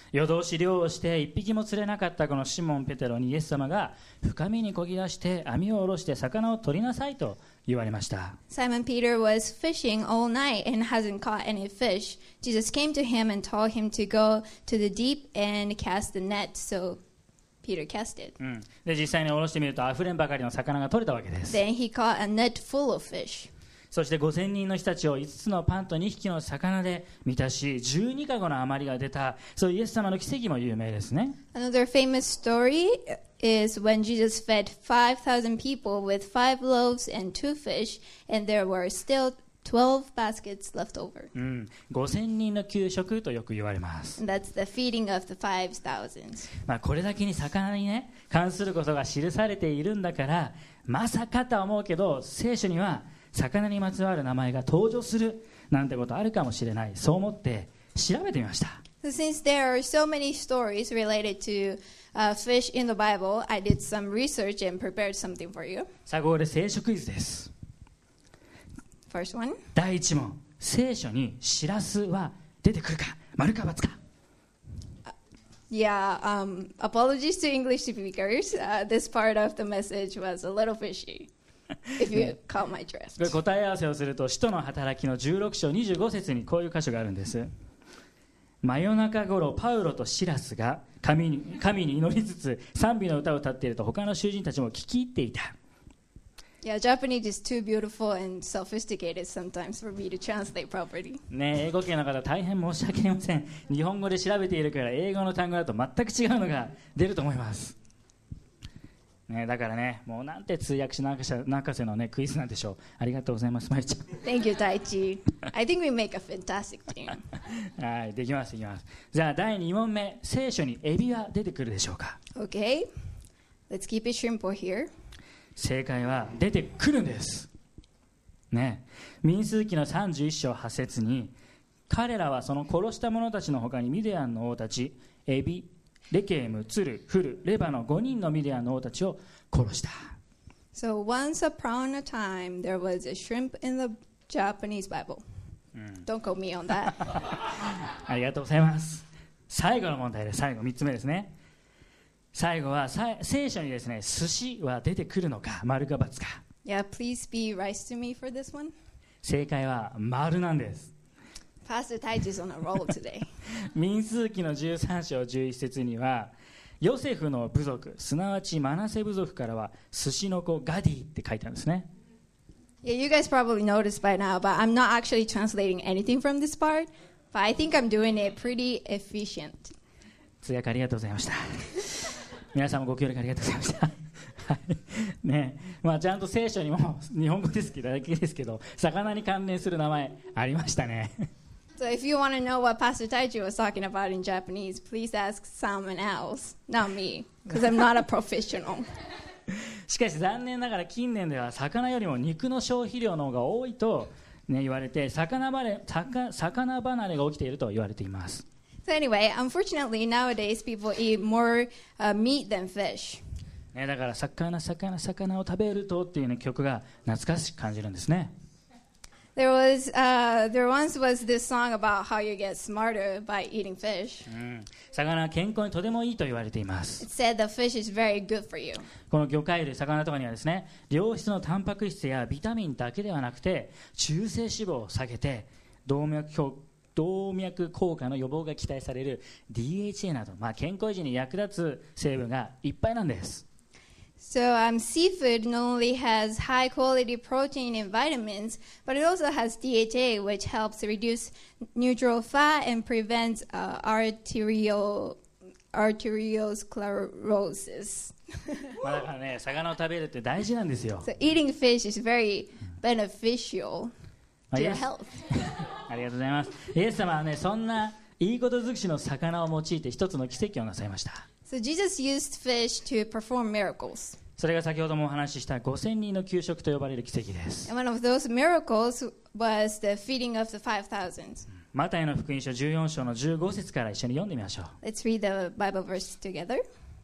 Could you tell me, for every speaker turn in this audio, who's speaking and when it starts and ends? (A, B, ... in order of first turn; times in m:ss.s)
0:00.1-0:08.4 A
0:08.5-0:17.0 B
0:17.6-0:18.4 B
0:18.4-0:21.6 A
0:21.5-0:23.5 B
0:23.9-0:31.4 A
0:31.5-0:41.3 B
0:41.4-0:44.2 A
0:44.2-0:46.5 B
0:46.6-0:58.8 A
0:59.0-1:05.9 B
1:06.1-1:07.5 A
1:09.1-1:09.6 B
1:09.8-1:14.0 A
1:15.7-1:21.3 B
1:22.0-1:23.3 B
1:23.2-1:27.5 A
1:28.6-1:35.5 A
1:36.6-1:41.2 B
1:41.3-1:47.8 A
1:49.3-1:54.2 A
1:54.2-1:57.2 B
1:57.6-2:02.2 A
2:02.4-2:02.9 B
2:03.7-2:04.9 B
2:05.6-2:07.5 A
2:08.5-2:11.3 A
2:11.9-2:20.2 A
2:20.7-2:25.2 B
2:25.8-2:26.1 A
2:26.1-2:27.2 B
2:27.1-2:31.3 A
2:32.3-2:36.4 A
2:36.6-2:38.7 B
2:39.2-2:40.9 A
2:41.6-2:43.3 B
2:43.7-2:51.9 A
2:52.8-2:59.7 B
3:00.4-3:11.3 A
3:11.8-3:18.9 B
3:19.5-3:28.4 A
3:28.8-3:33.2 B
3:33.7-3:38.3 A
3:39.4-3:44.3 B
3:44.3-3:47.1 A
3:47.0-3:48.9 B
3:49.1-4:03.4 A
4:04.2-4:15.2 B
4:15.7-4:18.8 B
4:18.8-4:21.1 A
4:21.0-4:23.9 B
4:24.5-4:31.2 A
4:24.6-4:25.2 B
4:31.5-4:34.2 B
4:34.4-4:37.7 A
4:37.7-4:41.5 B
4:41.7-4:44.8 A
4:44.8-4:46.6 B